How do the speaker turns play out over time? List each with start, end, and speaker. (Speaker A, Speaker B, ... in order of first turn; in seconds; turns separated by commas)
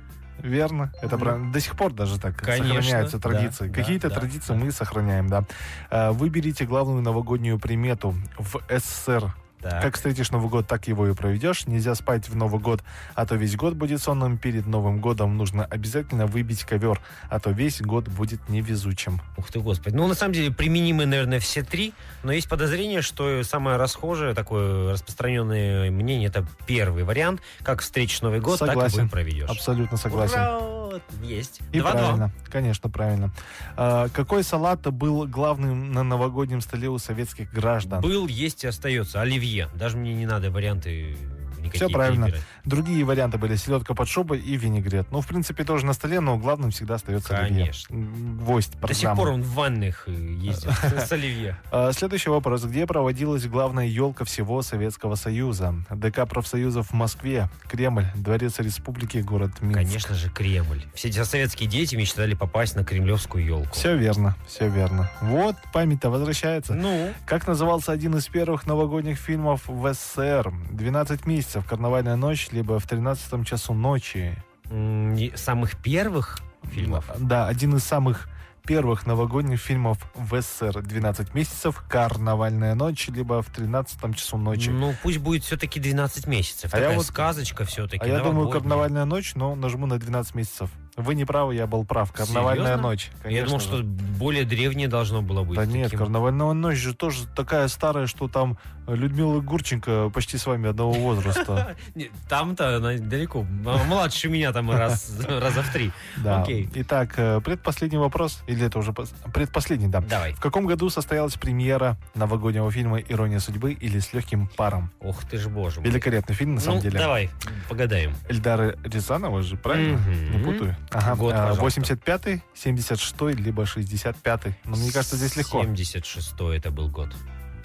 Speaker A: 0.4-19.2, Speaker B: 1.1-1.4, Speaker B: 2.4-4.6, Speaker B: 9.6-9.9, Speaker B: 19.4-32.3, Speaker A: 28.5-30.5, Speaker A: 31.7-38.1, Speaker B: 37.8-42.5, Speaker A: 41.8-49.3, Speaker B: 47.2-47.9, Speaker B: 48.8-51.6, Speaker A: 50.5-51.1, Speaker A: 51.7-60.0, Speaker B: 59.7-63.9, Speaker A: 63.7-74.4, Speaker B: 66.7-67.2, Speaker B: 74.7-77.2, Speaker A: 76.7-84.8, Speaker B: 84.5-88.9, Speaker A: 86.7-93.8, Speaker B: 92.2-96.1, Speaker A: 95.5-101.7, Speaker B: 101.1-106.7, Speaker A: 106.2-114.9, Speaker B: 110.0-110.4, Speaker B: 115.0-118.2, Speaker A: 115.8-117.1, Speaker A: 118.3-125.7, Speaker B: 119.7-121.9, Speaker B: 124.8-127.2